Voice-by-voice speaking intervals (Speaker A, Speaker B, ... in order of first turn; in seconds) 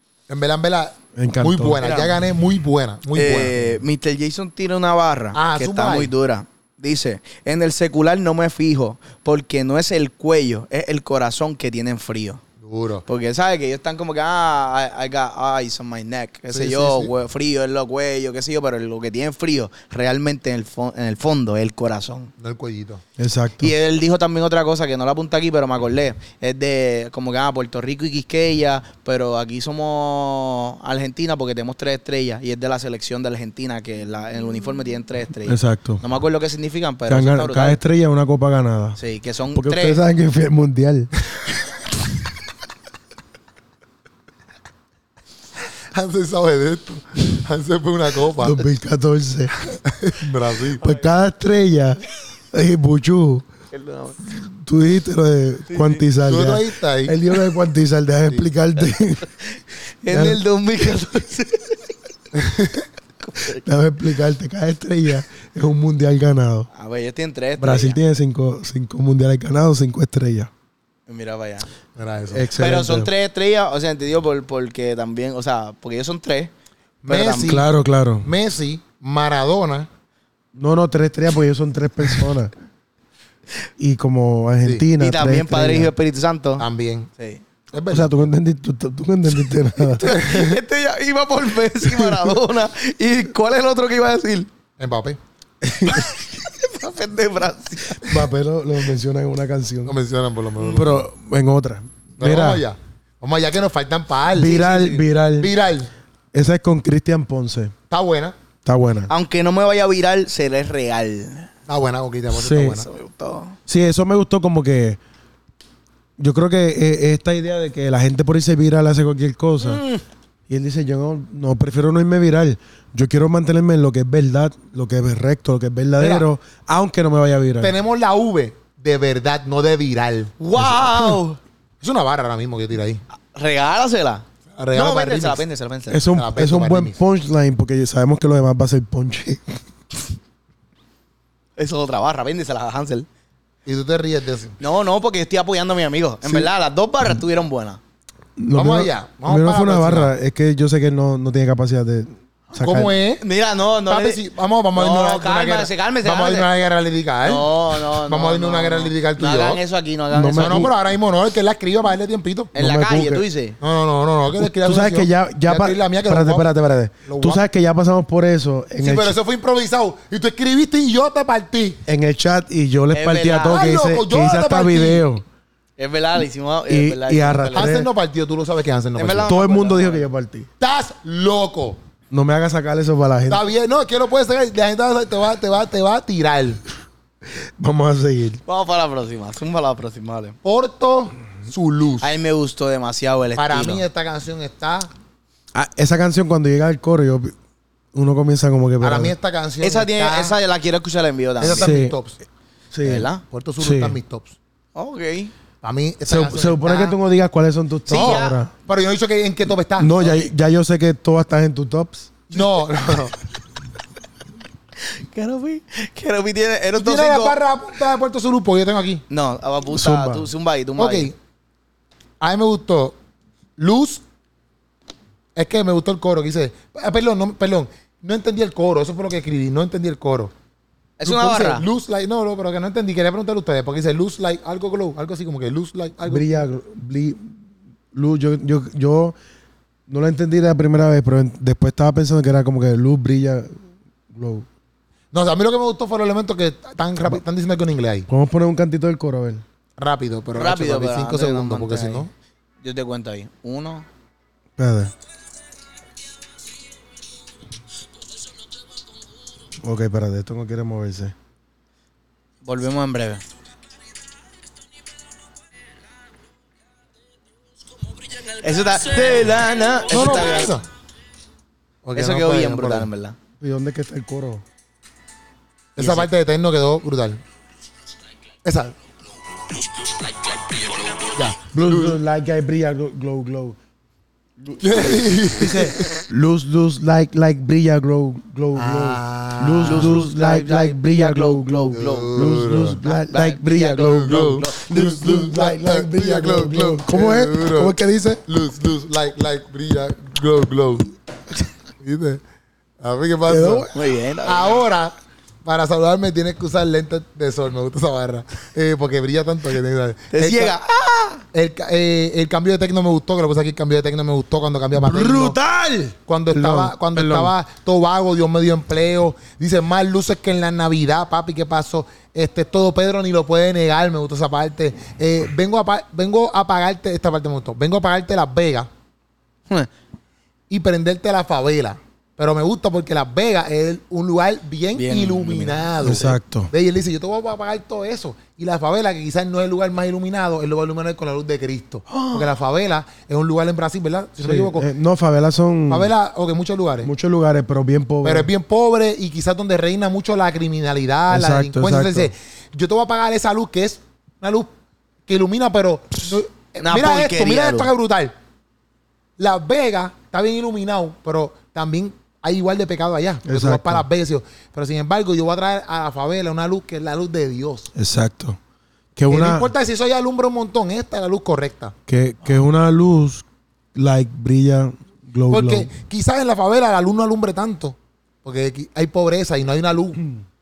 Speaker A: 0.3-3.8, 5.3-6.1, 12.6-13.1, 16.5-17.1, 22.4-23.0, 45.9-48.6, 49.8-50.9, 56.2-57.2, 72.0-72.5, 77.0-77.7, 78.2-79.9, 86.6-87.1, 87.7-88.1, 90.1-90.6, 94.8-95.2, 99.9-101.0, 102.2-104.6, 105.4-105.9, 107.9-108.4, 111.7-112.9, 126.0-126.3, 127.6-131.2, 131.8-133.0, 134.6-135.4, 136.1-137.0, 143.7-144.6, 146.2-146.5, 148.5-150.1, 152.6-153.2, 153.9-159.6, 160.4-162.5, 163.6-166.5, 167.1-167.4, 168.8-171.8, 173.5-175.1, 177.5-179.3, 180.6-181.8, 183.3-186.6, 190.4-192.1, 193.4-194.9, 198.8-200.4, 201.4-202.2, 203.3-204.4, 205.6-207.0, 207.9-210.2, 212.3-213.2, 216.8-219.0, 220.8-221.2, 222.2-223.0, 223.6-224.0, 225.4-230.3, 231.0-236.4, 245.1-248.1, 249.8-252.1, 269.9-270.6, 271.9-272.9, 275.8-277.2, 278.4-278.8, 281.1-282.0, 284.6-286.0, 288.6-290.0, 291.7-292.8, 293.9-300.9, 301.8-302.2, 302.8-303.7, 304.2-304.9, 305.4-310.6, 311.3-315.4, 316.1-328.7, 330.5-344.7, 345.7-346.9, 348.0-354.5, 355.1-358.1, 359.2-367.7, 369.1-371.7, 375.3-380.1
Speaker B: 1.2-1.8, 23.2-23.7, 35.5-36.0, 37.1-39.0, 39.5-41.1, 48.4-49.6, 50.7-53.5, 54.3-59.3, 60.1-60.4, 62.3-62.9, 63.5-66.7, 67.6-70.5, 72.3-73.1, 77.4-78.3, 80.5-82.5, 83.8-85.9, 87.9-90.2, 91.9-92.4, 95.6-96.1, 98.0-100.0, 100.6-102.6, 104.3-105.5, 106.3-107.7, 108.7-109.1, 112.3-112.8, 113.7-115.0, 116.2-119.8, 120.5-127.7, 135.9-139.6, 148.4-152.9, 160.1-160.7, 162.6-163.2, 164.4-169.2, 171.9-175.2, 176.7-177.9, 179.3-180.5, 182.1-183.4, 187.6-188.4, 195.5-197.3, 197.9-199.1, 201.6-202.0, 202.7-203.1, 203.6-204.0, 206.1-208.5, 209.8-212.2, 219.7-220.3, 236.1-237.3, 237.9-239.2, 239.9-243.6, 244.1-244.5, 248.1-249.4, 254.6-254.9, 259.6-261.1, 273.4-274.4, 281.5-283.6, 284.4-298.2, 303.3-303.8, 314.8-317.3, 335.8-336.5, 341.9-342.3, 344.2-345.9, 346.8-348.3, 351.1-352.1, 363.2-363.9, 367.8-368.4, 369.0-369.5, 371.9-375.7
Speaker C: 1.8-2.1, 3.1-12.4, 13.1-22.3, 23.6-37.8, 39.0-40.0, 53.7-54.2, 55.7-56.0, 59.4-61.9, 63.2-63.6, 66.7-68.0, 71.1-71.7, 72.5-76.5, 77.1-77.6, 85.0-86.7, 87.2-87.4, 89.8-94.5, 95.9-98.3, 104.4-105.1, 109.1-111.5, 112.7-113.6, 119.6-120.0, 130.4-131.4, 133.3-136.0, 141.6-143.1, 144.6-147.8, 153.2-154.2, 154.8-156.5, 157.2-160.7, 162.6-163.6, 172.9-173.7, 175.8-177.8, 179.0-180.1, 188.5-190.4, 192.0-193.8, 199.6-201.7, 202.8-203.2, 204.8-205.3, 207.9-208.4, 214.8-217.4, 219.1-221.1, 231.0-231.7, 250.4-252.1, 252.6-253.9, 262.4-263.2, 268.1-270.6, 272.0-273.2, 275.8-276.1, 289.7-294.7, 303.7-304.6, 310.1-311.2, 334.8-336.1, 356.6-357.7